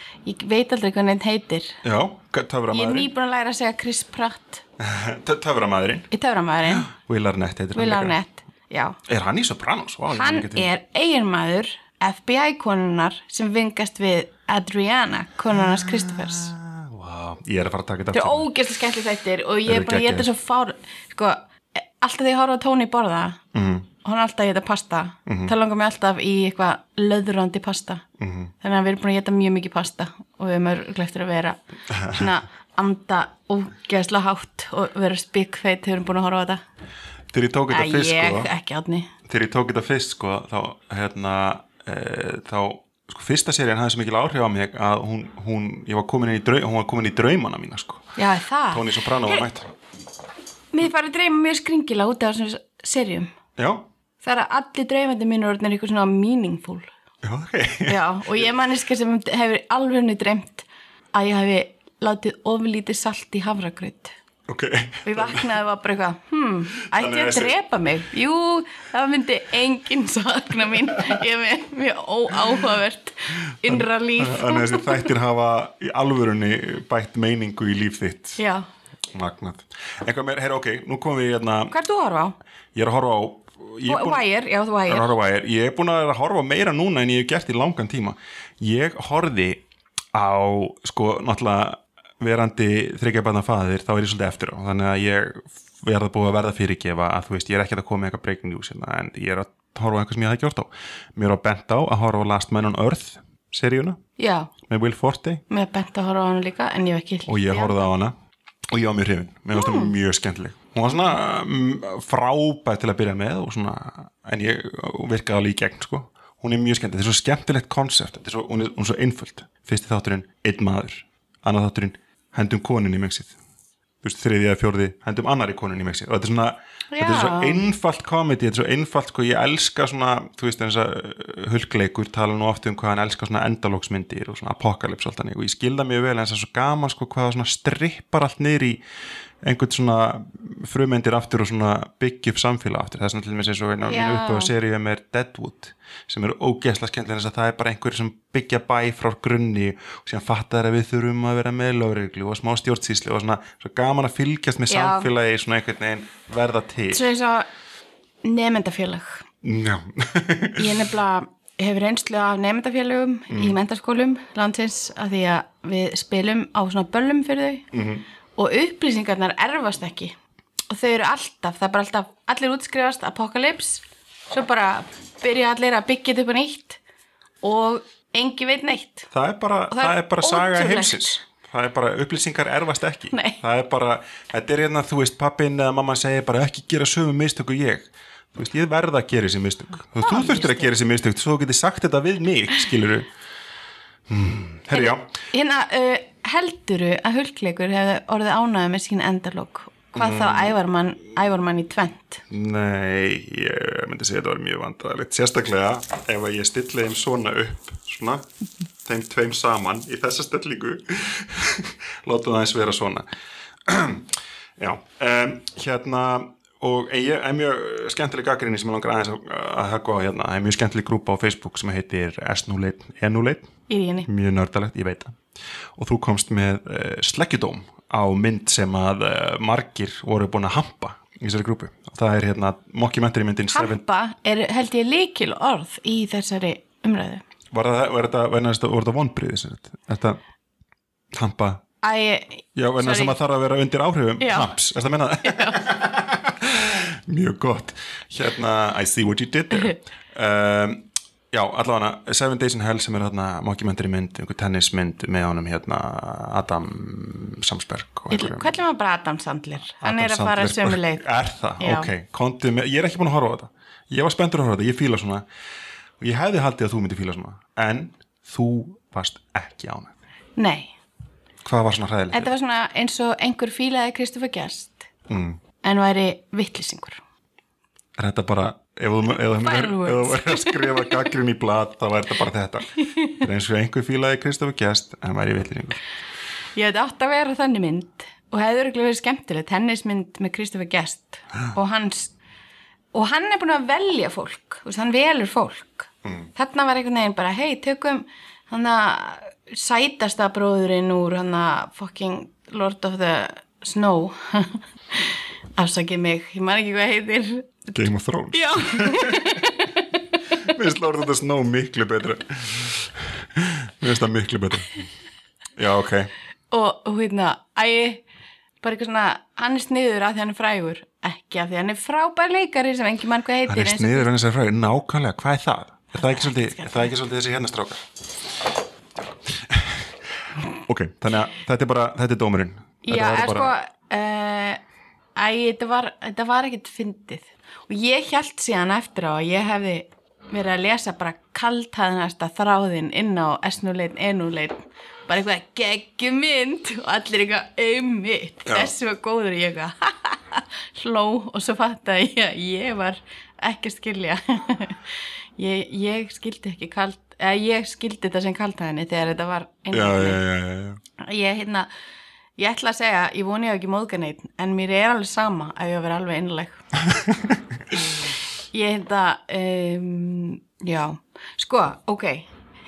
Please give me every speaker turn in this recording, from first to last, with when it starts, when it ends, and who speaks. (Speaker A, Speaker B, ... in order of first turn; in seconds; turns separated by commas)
Speaker A: 0.2-1.8, Speaker B: 1.8-3.1, Speaker A: 2.7-4.6, Speaker B: 4.8-6.1, Speaker A: 6.1-6.9, Speaker B: 6.7-8.2, Speaker A: 7.8-9.0, Speaker B: 9.1-10.7, Speaker A: 10.1-16.5, Speaker B: 15.5-18.5, Speaker A: 18.1-23.4, Speaker B: 19.7-20.3, Speaker B: 23.5-23.9, Speaker A: 24.0-28.0, Speaker B: 25.3-25.5, Speaker B: 28.2-28.5, Speaker A: 28.6-36.6, Speaker B: 31.9-32.3, Speaker B: 37.3-38.5, Speaker A: 37.7-39.1, Speaker B: 39.3-48.0, Speaker A: 48.2-49.4, Speaker B: 48.7-49.7, Speaker A: 50.7-53.3, Speaker B: 53.6-53.9, Speaker A: 54.2-56.9, Speaker B: 57.2-58.5, Speaker A: 57.9-64.2, Speaker B: 64.5-65.5, Speaker A: 65.0-75.1, Speaker B: 66.9-67.5, Speaker B: 73.6-78.4, Speaker A: 78.4-78.7, Speaker B: 79.1-81.7, Speaker A: 81.7-82.4, Speaker B: 82.8-84.2, Speaker A: 83.9-85.1, Speaker B: 84.9-89.6, Speaker B: 90.1-104.0, Speaker A: 104.2-104.5, Speaker B: 104.6-105.4, Speaker A: 105.5-107.9, Speaker B: 107.3-108.1, Speaker B: 108.7-123.3, Speaker A: 109.5-109.9, Speaker B: 124.0-138.8, Speaker A: 126.9-127.6, Speaker B: 139.4-157.1, Speaker A: 143.9-144.5, Speaker A: 154.7-155.1, Speaker A: 156.9-157.5, Speaker A: 158.2-159.2, Speaker B: 159.4-160.7, Speaker A: 160.6-167.7, Speaker B: 163.3-163.6, Speaker B: 167.7-168.0, Speaker A: 168.4-170.1, Speaker A: 170.7-176.8, Speaker A: 177.4-179.1, Speaker B: 179.1-193.1, Speaker A: 179.7-181.2, Speaker A: 183.1-183.4, Speaker A: 190.0-190.7, Speaker B: 194.1-195.1, Speaker A: 194.7-202.2, Speaker B: 199.9-200.6, Speaker B: 202.3-208.2, Speaker B: 208.8-213.1, Speaker B: 213.7-223.5, Speaker A: 223.7-224.1, Speaker B: 224.1-225.2, Speaker B: 225.8-233.8, Speaker A: 233.5-237.2, Speaker B: 237.5-240.2, Speaker B: 241.1-241.6, Speaker A: 241.8-243.2, Speaker B: 242.6-258.6, Speaker A: 244.2-244.5, Speaker A: 245.2-245.6, Speaker A: 249.5-249.8, Speaker A: 258.1-261.1, Speaker B: 259.8-265.2, Speaker A: 261.6-261.9, Speaker B: 266.0-270.0, Speaker A: 270.4-270.7, Speaker B: 271.4-272.3, Speaker A: 272.1-274.9, Speaker B: 275.1-275.4, Speaker A: 275.6-277.0, Speaker B: 278.0-285.8, Speaker A: 279.4-281.1, Speaker A: 286.6-292.1, Speaker A: 292.9-307.7, Speaker B: 307.7-309.4, Speaker A: 308.3-310.5, Speaker B: 310.4-314.8, Speaker B: 315.6-316.1, Speaker A: 316.5-318.0, Speaker A: 318.6-324.1, Speaker B: 323.5-327.9, Speaker A: 326.0-326.9, Speaker B: 329.3-329.9, Speaker B: 330.6-333.5, Speaker A: 332.8-334.6, Speaker A: 335.2-354.8, Speaker B: 348.5-348.7, Speaker A: 355.4-360.2, Speaker B: 359.7-360.8, Speaker A: 361.0-361.7, Speaker A: 362.4-366.6, Speaker A: 368.5-372.3